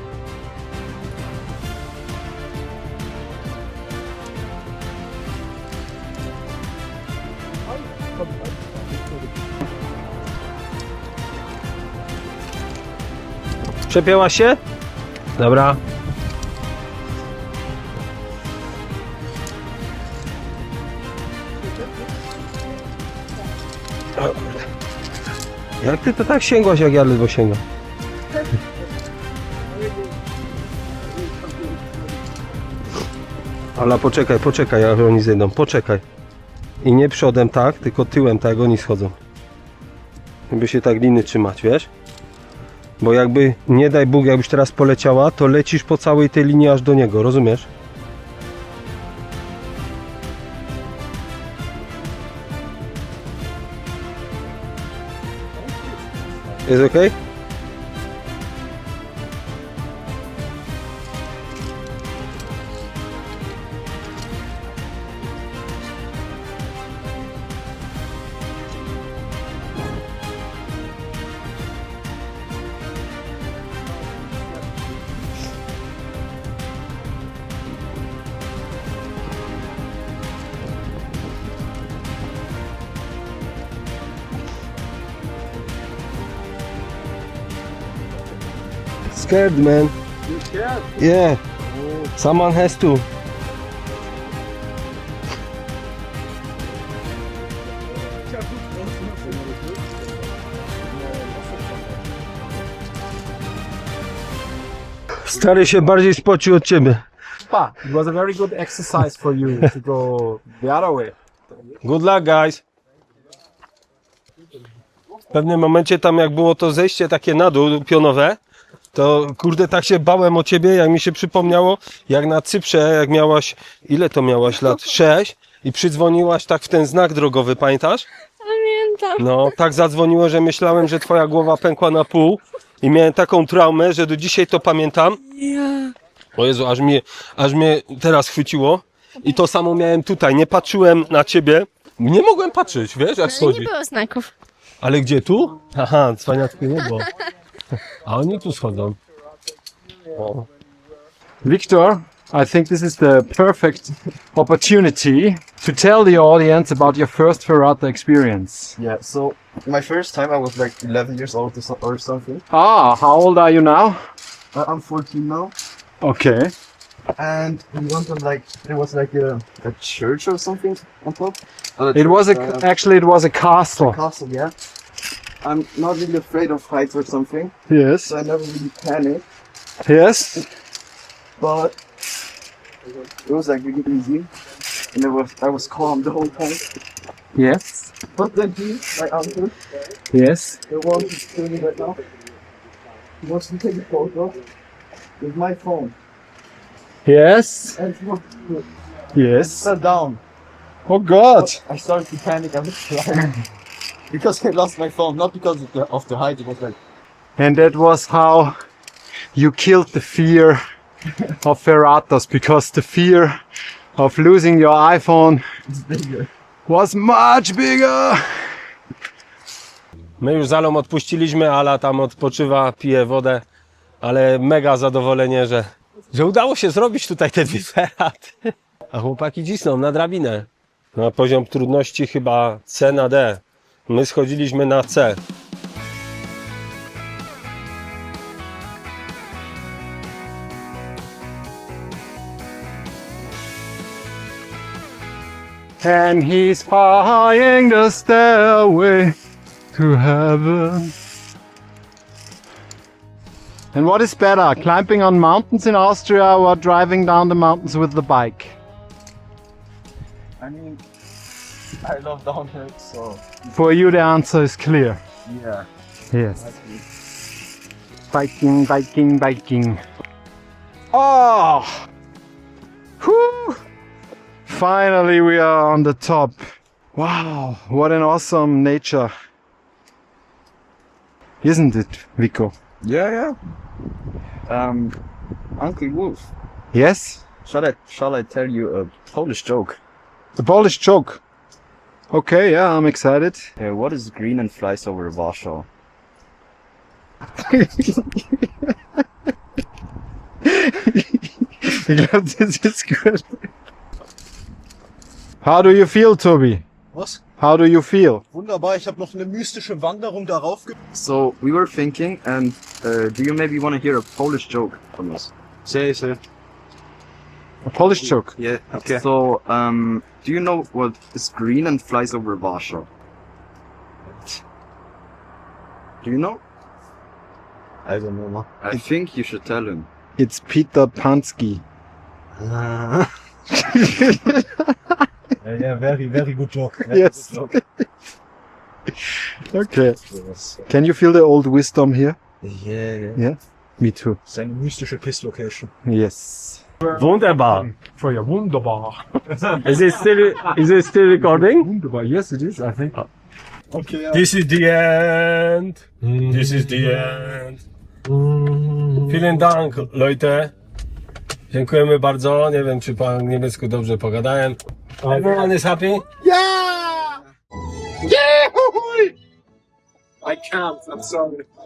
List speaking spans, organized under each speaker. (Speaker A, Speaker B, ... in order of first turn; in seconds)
Speaker A: 13.9-14.6, 15.4-15.8, 24.2-24.6, 25.8-27.6, 33.8-36.0, 36.8-39.2, 40.5-41.9, 43.0-47.7, 56.6-57.1, 89.1-90.0, 91.0-91.4, 92.2-93.1, 105.2-107.0, 111.8-112.6, 115.3-118.4, 118.9-128.1, 129.2-135.2, 136.4-143.7, 144.8-147.1, 148.1-149.0, 150.2-150.5, 220.2-223.4, 224.0-235.2, 346.9-347.7, 349.5-351.7, 354.1-357.6, 358.9-360.5, 361.5-366.1
Speaker B: 90.3-90.8, 98.3-100.0, 100.9-102.0, 306.9-307.2, 308.3-310.7, 315.7-316.2, 318.7-319.1, 335.4-337.4, 344.3-345.7, 353.7-354.2, 358.4-358.9
Speaker C: 107.4-111.2, 151.4-158.8, 162.5-164.0, 166.0-166.5, 171.9-174.0, 177.7-178.1, 179.8-180.5, 187.3-187.9, 190.1-190.6, 197.1-197.8, 199.1-199.7, 200.9-201.6, 207.4-208.6, 209.3-210.6, 211.4-213.4, 214.0-215.4, 216.7-218.6, 245.8-249.2, 249.7-250.9, 253.7-258.6, 263.5-265.0, 266.1-266.5, 268.1-269.8, 270.9-271.9, 273.0-273.6, 274.5-276.4, 276.9-279.1, 281.4-282.5, 286.7-287.2, 290.4-291.2, 292.1-293.5, 297.4-298.5, 300.4-303.4, 305.4-306.6, 307.4-308.2, 317.7-318.3, 330.2-331.6, 333.6-334.6, 336.9-337.8, 339.3-340.0, 340.7-342.2, 343.1-344.2, 345.9-349.5, 351.4-353.0, 365.1-365.4, 366.2-367.2, 368.0-369.1, 370.2-371.4
Speaker D: 128.4-129.3, 135.3-135.9, 143.3-144.3
Speaker E: 158.8-162.4, 164.5-165.6, 167.2-172.7, 173.8-174.6, 175.4-179.3, 181.4-181.8, 183.2-184.3, 184.9-186.7, 188.1-189.6, 190.7-192.0, 193.2-194.4, 195.2-196.0, 197.8-198.7, 199.5-200.2, 201.4-203.4, 204.1-206.8, 215.7-216.3, 260.4-260.8, 261.8-263.4, 265.3-265.7, 266.4-266.8, 282.8-283.4, 284.5-285.0, 285.6-286.3, 287.4-289.8, 293.6-295.7, 310.9-315.3, 318.4-322.9, 326.0-326.4, 327.9-329.9, 332.4-333.1, 336.9-337.5, 340.1-340.6, 342.4-343.2